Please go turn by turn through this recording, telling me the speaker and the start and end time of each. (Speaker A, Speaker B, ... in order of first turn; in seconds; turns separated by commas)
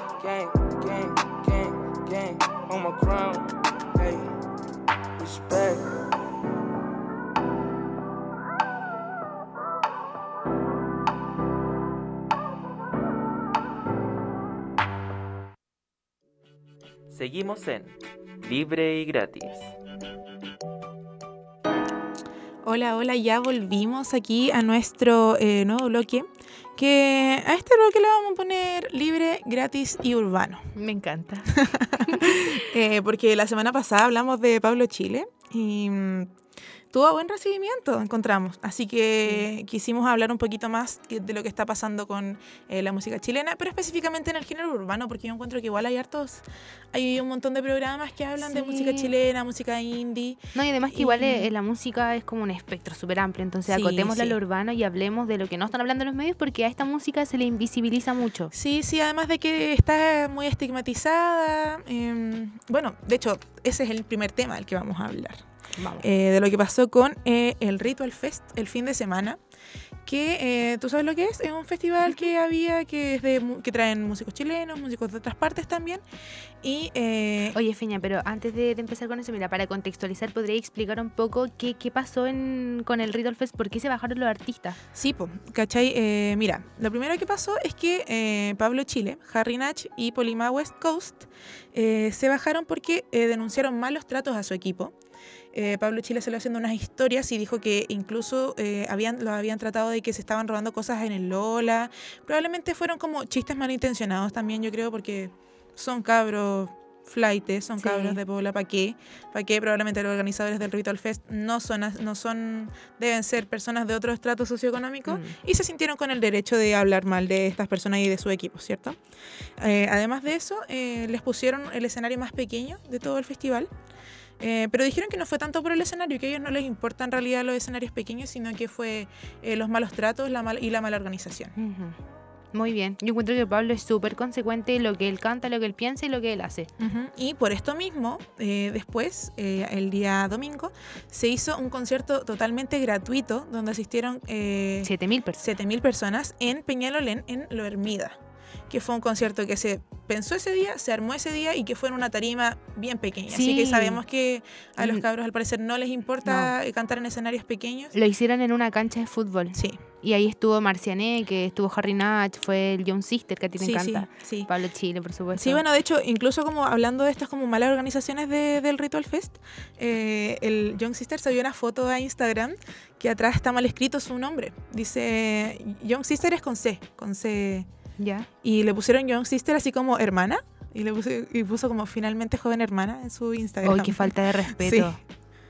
Speaker A: 0.2-4.2, Speaker A: 5.2-5.8, Speaker B: 17.1-19.7, Speaker C: 22.6-30.7, Speaker D: 30.7-32.6, Speaker C: 31.5-36.4, Speaker C: 36.9-51.5, Speaker D: 48.4-49.1, Speaker D: 50.5-58.5, Speaker C: 53.7-54.4, Speaker C: 58.5-65.5, Speaker D: 65.8-66.0, Speaker C: 66.0-69.4, Speaker C: 70.0-76.0, Speaker C: 76.6-77.6, Speaker D: 77.5-84.8, Speaker C: 84.9-94.9, Speaker C: 95.5-119.0, Speaker D: 107.8-108.2, Speaker D: 115.0-115.4, Speaker C: 119.6-123.7, Speaker C: 124.4-131.5, Speaker D: 131.6-132.0, Speaker D: 132.5-136.7, Speaker C: 136.8-157.9, Speaker D: 144.8-145.4, Speaker D: 153.3-154.0, Speaker D: 154.8-155.0, Speaker D: 156.2-156.5, Speaker D: 157.9-165.6, Speaker C: 159.5-159.8, Speaker C: 163.6-164.5, Speaker C: 165.3-177.7, Speaker D: 178.0-178.3, Speaker C: 178.4-185.0, Speaker D: 183.6-185.0